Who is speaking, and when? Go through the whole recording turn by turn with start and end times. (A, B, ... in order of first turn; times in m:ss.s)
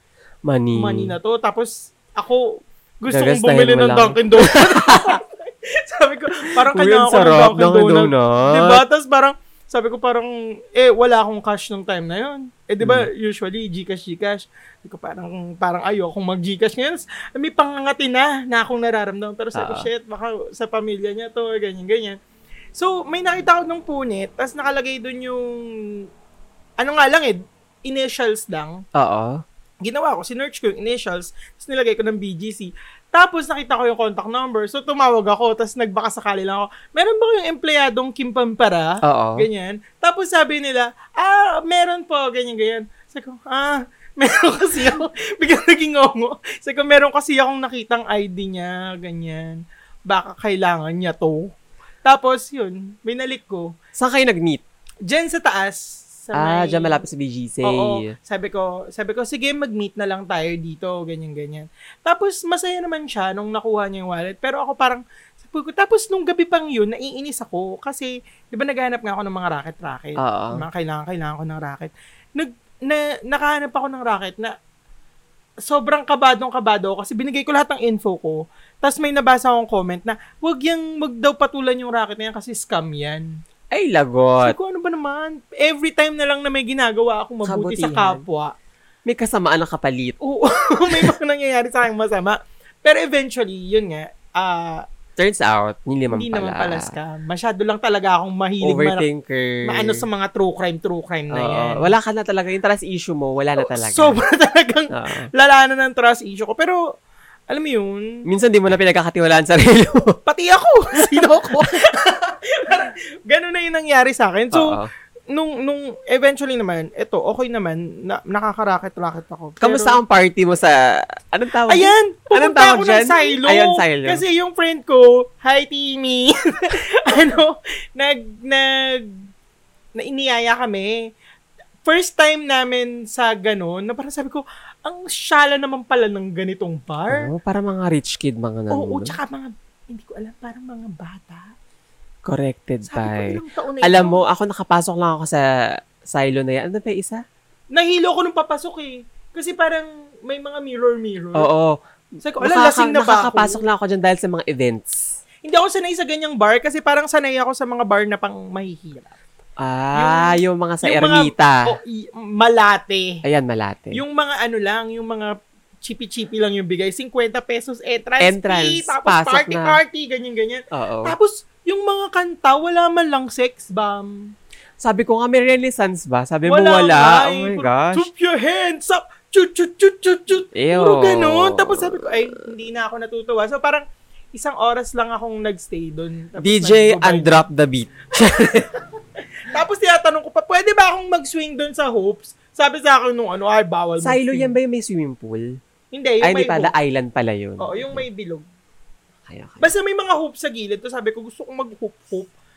0:00.5-0:01.1 A
0:00.7-0:22.2 B
0:03.1-0:05.2 A
0:06.6-0:08.8 A
0:12.8-0:13.1 A
0:19.6-0:19.9 A
0:22.8-0:25.9 B
0:26.8-0:28.8 B
0:29.0-0:29.4 A
0:29.8-0:53.7 B
0:39.0-0:39.5 A
0:54.0-0:54.6 A
0:55.1-0:57.0 B
0:56.4-0:58.1 A
0:57.6-1:14.6 B
1:10.2-1:10.6 A
1:15.6-1:23.3 B
1:23.7-1:24.6 A
1:24.4-1:28.5 B
1:27.4-1:28.2 A
1:29.1-1:30.2 A
1:30.2-1:34.8 B
1:35.2-1:36.9 A
1:36.1-1:39.1 B
1:38.6-1:40.1 A
1:39.6-1:41.9 B
1:41.3-1:44.2 A
1:43.6-1:46.8 B
1:44.9-1:45.3 A
1:47.5-1:48.0 B
1:48.3-1:50.2 A
1:50.3-1:54.8 B
1:54.5-1:54.9 A
1:55.3-2:00.0 B
1:59.6-2:04.2 A
2:01.7-2:09.2 B
2:10.0-2:11.0 B
2:11.8-2:17.3 B
2:17.1-2:19.2 A
2:18.7-2:21.5 B
2:22.2-2:25.5 A
2:22.9-2:24.2 B
2:26.0-2:27.2 A
2:27.7-2:31.5 B
2:31.4-2:31.8 A
2:32.2-2:33.6 B
2:32.4-2:35.1 A
2:35.4-2:39.2 B
2:39.6-2:41.7 A
2:40.0-2:43.2 B
2:43.2-2:44.0 A
2:43.9-2:45.3 B
2:45.8-2:54.3 B
2:48.2-2:49.8 A
2:50.7-2:51.2 A
2:54.8-2:58.1 A
2:56.5-3:07.4 B
3:00.6-3:02.1 A
3:06.4-3:08.7 A
3:09.5-3:14.5 B
3:14.0-3:15.5 A
3:15.9-3:16.7 B
3:16.2-3:18.0 A
3:17.6-3:18.4 B
3:19.3-3:19.7 A
3:19.6-3:22.3 B